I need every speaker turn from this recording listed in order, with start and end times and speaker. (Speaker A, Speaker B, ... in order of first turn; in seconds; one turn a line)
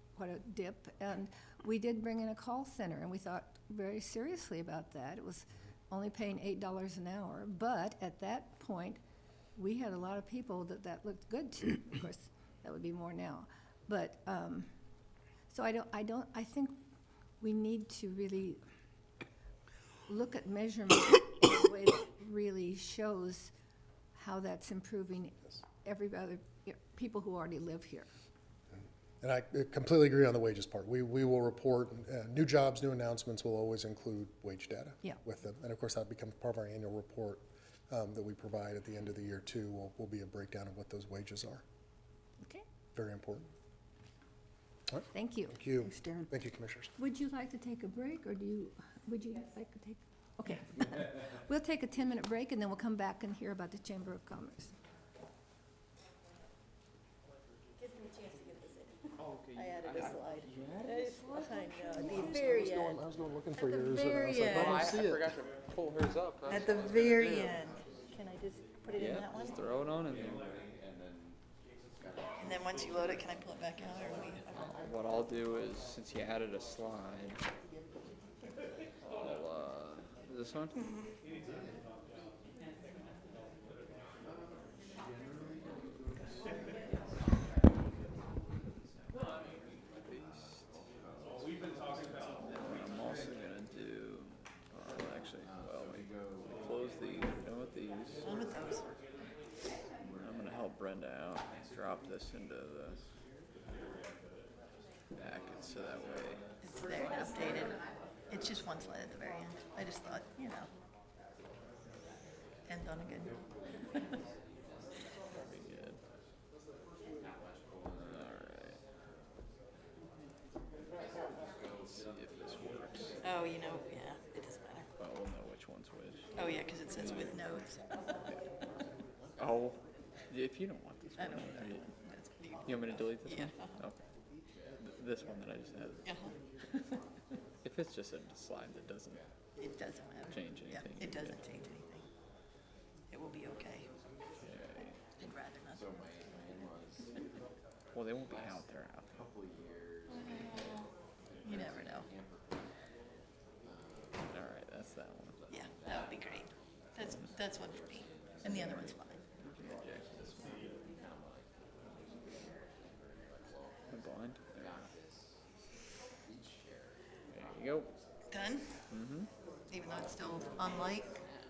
Speaker A: 0.1-9.0
Speaker A: 9.6-14.7
Speaker A: 15.5-16.8
Speaker A: 17.4-18.6
Speaker A: 20.1-23.5
Speaker A: 24.1-28.1
Speaker B: 29.2-41.6
Speaker B: 42.9-43.5
Speaker B: 45.0-46.9
Speaker A: 45.1-45.5
Speaker A: 47.0-54.7
Speaker C: 57.8-59.0
Speaker C: 59.5-63.0
Speaker D: 59.8-60.1
Speaker B: 62.0-65.3
Speaker C: 63.6-65.0
Speaker D: 64.4-67.6
Speaker C: 66.5-69.6
Speaker D: 68.9-70.5
Speaker C: 72.4-74.8
Speaker D: 74.8-77.4
Speaker D: 79.0-80.8
Speaker D: 89.8-90.7
Speaker D: 92.1-98.3
Speaker C: 98.2-98.9
Speaker D: 100.2-103.0
Speaker D: 105.2-106.5
Speaker C: 106.6-110.7
Speaker C: 112.7-114.2
Speaker D: 115.3-116.0
Speaker D: 118.0-118.8
Speaker D: 121.8-123.2
Speaker C: 123.2-124.9
Speaker D: 125.0-126.4
Speaker C: 126.4-127.8
Speaker D: 129.4-129.8
Speaker D: 130.3-131.9
Speaker C: 131.2-133.7
Speaker D: 132.6-134.0
Speaker D: 134.8-136.2
Speaker C: 136.0-136.3
Speaker D: 137.6-139.2
Speaker C: 139.6-142.1
Speaker D: 140.3-141.4
Speaker C: 143.1-143.9
Speaker D: 144.4-145.0
Speaker C: 145.2-146.0
Speaker D: 147.9-149.2
Speaker C: 150.1-150.9
Speaker C: 151.4-152.1
Speaker D: 154.2-155.4
Speaker C: 155.5-159.2
Speaker D: 158.4-160.5
Speaker D: 163.9-164.9
Speaker D: 167.3-167.9
Speaker C: 168.3-168.7
Speaker D: 168.9-169.3
Speaker C: 169.7-171.2